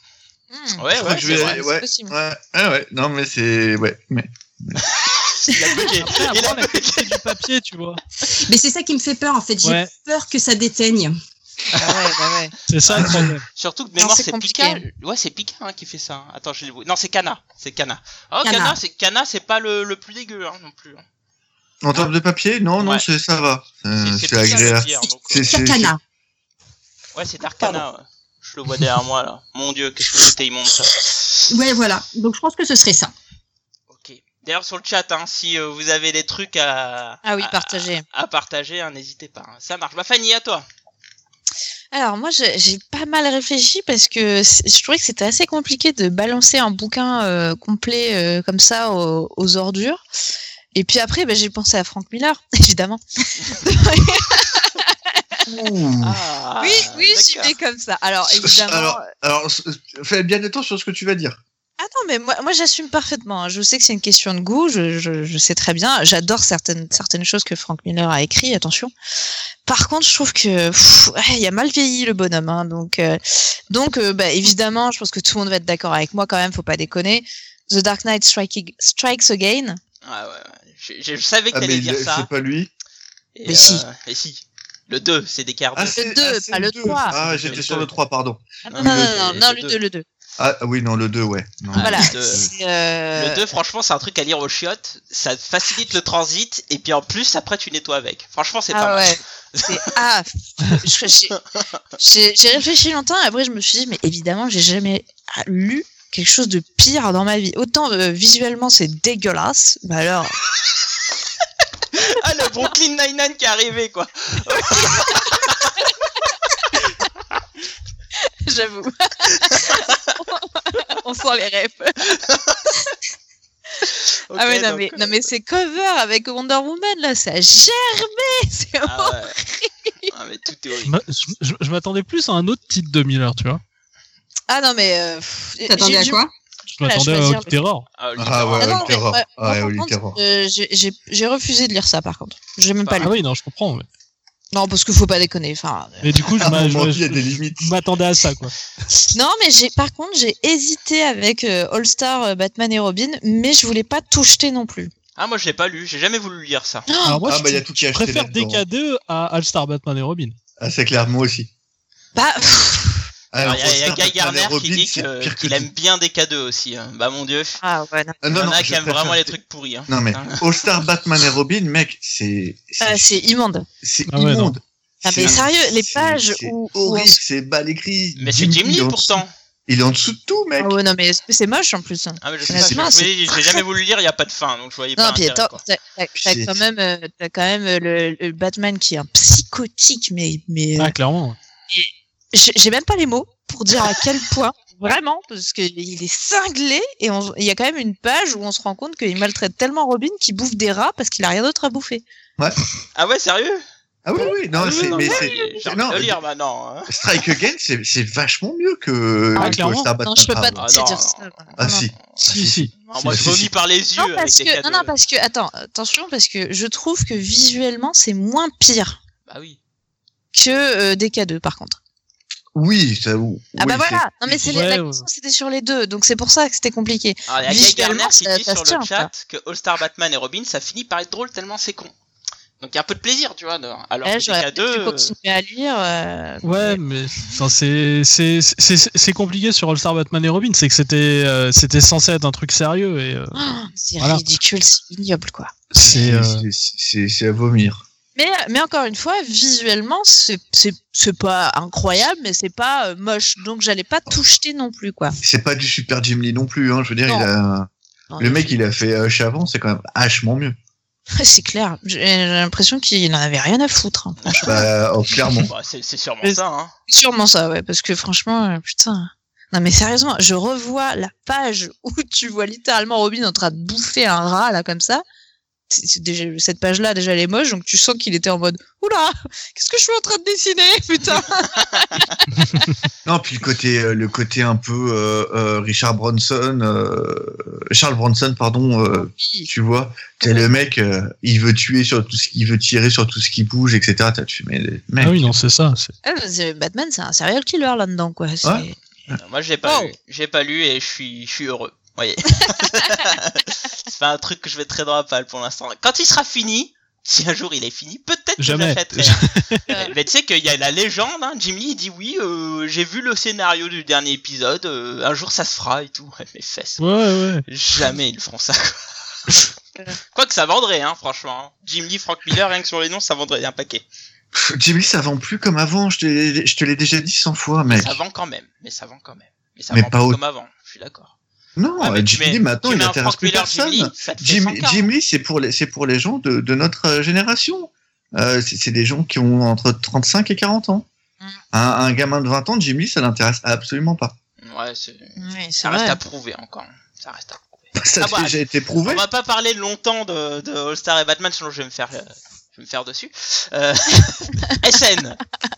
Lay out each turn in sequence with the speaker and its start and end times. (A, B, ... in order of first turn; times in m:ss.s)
0:00.5-0:02.1 A
0:00.8-0:01.6 B
0:01.0-0:04.8 C
0:04.8-0:07.4 B
0:06.0-0:08.0 D
0:08.2-0:11.1 E
0:09.6-0:09.9 D
0:11.8-0:12.5 A
0:12.7-0:13.5 D
0:13.0-0:21.0 B
0:13.0-0:13.3 C
0:14.0-0:14.8 A
0:18.4-0:18.8 E
0:21.8-0:25.9 C
0:22.8-0:23.0 B
0:24.0-0:25.7 B
0:25.0-0:26.0 E
0:27.1-0:31.5 B
0:31.5-0:33.1 E
0:33.9-0:40.6 B
0:37.2-0:38.0 A
0:41.9-0:50.0 A
0:50.7-0:55.2 A
0:55.5-0:56.2 C
0:56.0-0:57.6 B
0:56.6-0:59.1 A
0:58.3-1:01.4 C
1:01.8-1:08.9 A
1:09.6-1:19.8 A
1:20.0-1:22.3 B
1:21.5-1:22.7 C
1:23.4-1:26.0 B
1:23.5-1:23.8 A
1:25.8-1:29.2 C
1:26.0-1:27.2 A
1:27.1-1:27.9 B
1:28.7-1:30.0 A
1:28.7-1:29.8 B
1:30.4-1:32.5 C
1:31.7-1:32.5 B
1:31.8-1:33.5 A
1:33.1-1:39.8 B
1:38.7-1:41.4 A
1:41.3-1:41.6 B
1:42.0-1:50.4 A
1:51.9-1:55.8 B
1:58.4-2:02.1 A
2:02.2-2:02.6 B
2:04.3-2:05.2 B
2:04.3-2:10.1 A
2:08.8-2:09.4 B
2:10.1-2:10.9 B
2:10.8-2:13.6 D
2:14.5-2:17.6 A
2:15.7-2:16.3 E
2:16.8-2:17.9 D
2:18.0-2:19.0 B
2:18.2-2:20.2 C
2:18.6-2:23.1 A
2:22.8-2:23.1 B
2:23.0-2:23.9 D
2:24.5-2:26.4 A
2:26.0-2:28.6 D
2:26.4-2:27.7 C
2:29.1-2:34.9 A
2:35.2-2:36.9 B
2:36.9-2:37.2 A
2:37.0-2:40.4 D
2:37.2-2:38.6 C
2:40.6-2:41.5 C
2:42.1-2:43.0 A
2:42.4-2:42.7 B
2:43.3-2:45.7 C
2:43.4-2:47.6 B
2:47.6-2:48.2 A
2:48.2-2:49.4 C
2:48.3-2:50.6 B
2:49.9-2:53.1 C
2:52.8-2:53.7 A
2:53.8-3:00.8 C
2:54.1-2:54.6 D
2:55.0-2:57.2 A
2:58.2-2:59.3 B
3:00.6-3:03.6 A
3:02.2-3:05.6 B
3:02.5-3:02.9 C
3:05.0-3:11.0 A
3:06.1-3:06.6 C
3:10.8-3:11.4 D
3:11.7-3:22.0 A
3:23.0-3:23.6 B
3:24.0-3:26.2 C
3:24.5-3:26.9 B
3:24.7-3:25.1 D
3:25.0-3:25.6 A
3:26.9-3:30.6 C
3:29.4-3:29.9 D
3:29.4-3:31.9 A
3:30.6-3:31.4 B
3:31.6-3:33.5 C
3:32.2-3:33.2 D
3:32.8-3:34.9 B
3:34.0-3:39.0 A
3:39.3-3:39.6 B
3:40.3-3:41.8 A
3:42.6-3:44.6 C
3:43.6-3:49.1 A
3:44.5-3:45.1 D
3:47.3-3:51.9 B
3:52.6-3:55.1 B
3:54.0-3:56.8 A
3:56.4-4:03.4 D
4:03.3-4:05.5 A
4:05.7-4:06.5 D
4:05.8-4:07.8 C
4:08.2-4:15.2 A
4:15.2-4:20.6 C
4:18.1-4:18.6 A
4:21.2-4:24.6 A
4:24.2-4:24.7 B
4:24.4-4:25.5 C
4:25.3-4:26.7 B
4:26.2-4:35.0 A
4:35.7-4:42.2 A
4:43.0-4:55.3 C
4:48.9-4:49.5 A
4:50.2-4:50.5 A
4:55.0-4:55.9 D
4:56.0-4:58.8 A
4:58.4-4:59.2 C
4:59.2-5:16.8 B
4:59.6-5:00.0 A
5:08.4-5:09.7 D
5:16.8-5:17.4 D
5:17.5-5:19.5 B
5:20.1-5:23.8 B
5:24.3-5:28.0 C
5:27.7-5:31.1 B
5:29.7-5:30.2 C
5:31.6-5:40.9 C
5:31.8-5:34.9 B
5:41.5-5:44.1 C
5:44.4-5:55.2 B
5:45.2-5:46.0 A
5:47.8-5:49.0 C